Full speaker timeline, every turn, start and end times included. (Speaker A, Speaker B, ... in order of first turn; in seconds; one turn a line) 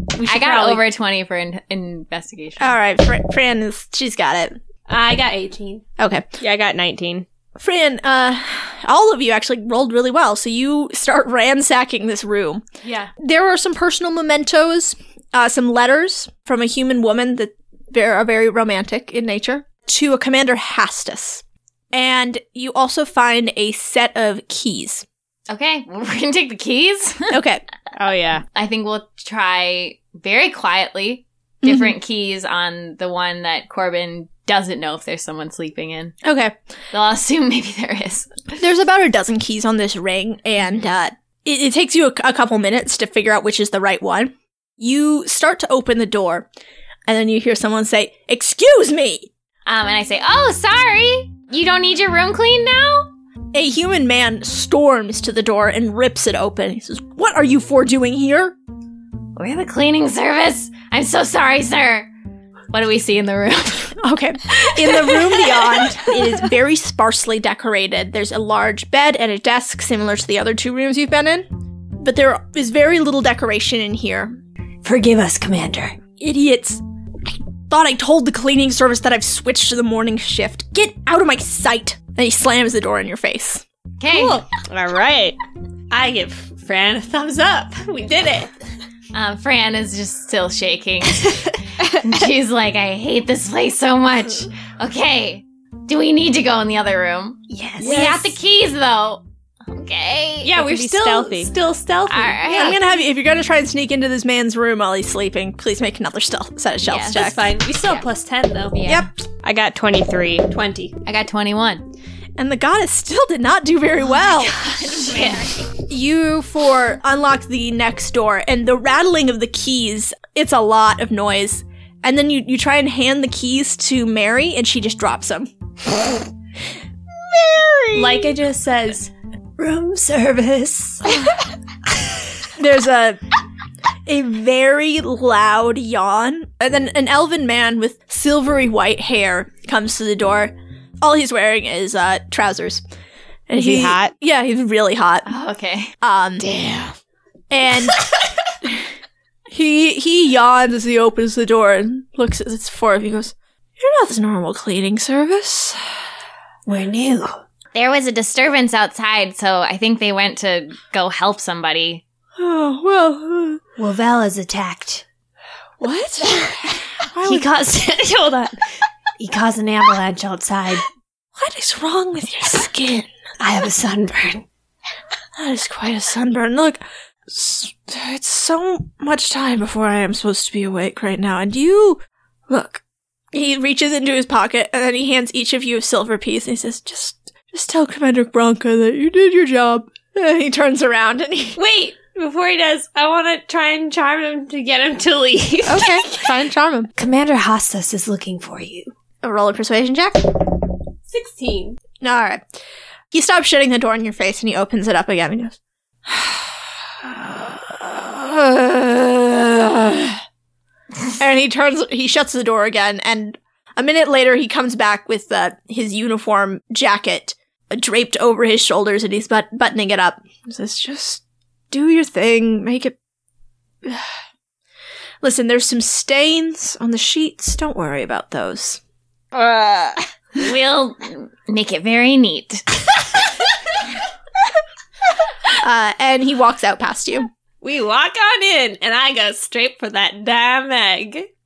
Speaker A: 0.1-0.9
Speaker B: 0.2-2.8
Speaker C: 2.6-4.6
Speaker A: 4.9-5.8
Speaker C: 6.0-6.2
Speaker D: 6.4-7.2
Speaker C: 7.6-12.6
Speaker A: 12.8-13.1
Speaker C: 13.2-25.1
Speaker B: 25.5-27.4
Speaker C: 27.3-27.6
Speaker D: 27.9-28.4
Speaker B: 28.5-36.1
Speaker C: 31.6-31.9
Speaker C: 36.2-36.5
Speaker B: 36.9-38.5
Speaker C: 38.6-46.5
Speaker B: 40.6-40.9
Speaker C: 47.1-49.3
Speaker B: 49.6-53.1
Speaker C: 53.5-58.5
Speaker B: 59.4-62.1
Speaker B: 62.7-64.0
Speaker C: 64.0-71.5
Speaker B: 64.6-65.8
Speaker C: 72.0-74.4
Speaker A: 74.8-76.0
Speaker C: 76.2-83.6
Speaker B: 84.0-84.4
Speaker A: 84.1-84.4
Speaker D: 84.2-85.4
Speaker A: 85.9-88.5
Speaker B: 89.1-100.5
Speaker A: 91.1-91.5
Speaker A: 97.5-98.3
Speaker C: 97.8-98.2
Speaker A: 100.4-102.8
Speaker D: 100.5-101.5
Speaker B: 102.1-102.8
Speaker C: 102.5-107.5
Speaker B: 106.8-107.2
Speaker A: 107.1-108.9
Speaker B: 108.7-109.1
Speaker D: 109.4-110.5
Speaker A: 110.5-111.0
Speaker B: 111.0-111.9
Speaker C: 112.4-114.7
Speaker B: 114.2-115.6
Speaker A: 115.1-115.5
Speaker C: 115.8-126.1
Speaker C: 127.2-128.3
Speaker A: 127.9-131.3
Speaker C: 132.6-133.2
Speaker C: 134.1-142.8
Speaker C: 143.5-145.3
Speaker D: 143.5-144.1
Speaker B: 145.2-145.9
Speaker C: 146.0-146.4
Speaker A: 146.4-146.9
Speaker C: 147.5-148.1
Speaker C: 149.5-156.0
Speaker A: 156.7-157.4
Speaker B: 157.7-162.0
Speaker C: 162.4-163.6
Speaker A: 163.8-165.0
Speaker C: 165.8-167.5
Speaker A: 167.2-168.6
Speaker A: 169.2-170.8
Speaker C: 171.3-173.1
Speaker A: 173.4-174.4
Speaker C: 175.3-182.8
Speaker C: 183.3-191.6
Speaker A: 191.6-196.3
Speaker C: 195.7-196.9
Speaker A: 197.0-198.9
Speaker C: 199.2-200.5
Speaker A: 201.1-201.8
Speaker C: 202.0-202.4
Speaker C: 203.1-210.2
Speaker C: 211.2-222.9
Speaker C: 223.8-224.1
Speaker C: 225.2-228.8
Speaker D: 229.3-230.0
Speaker B: 230.4-232.8
Speaker C: 235.6-237.3
Speaker A: 237.6-241.3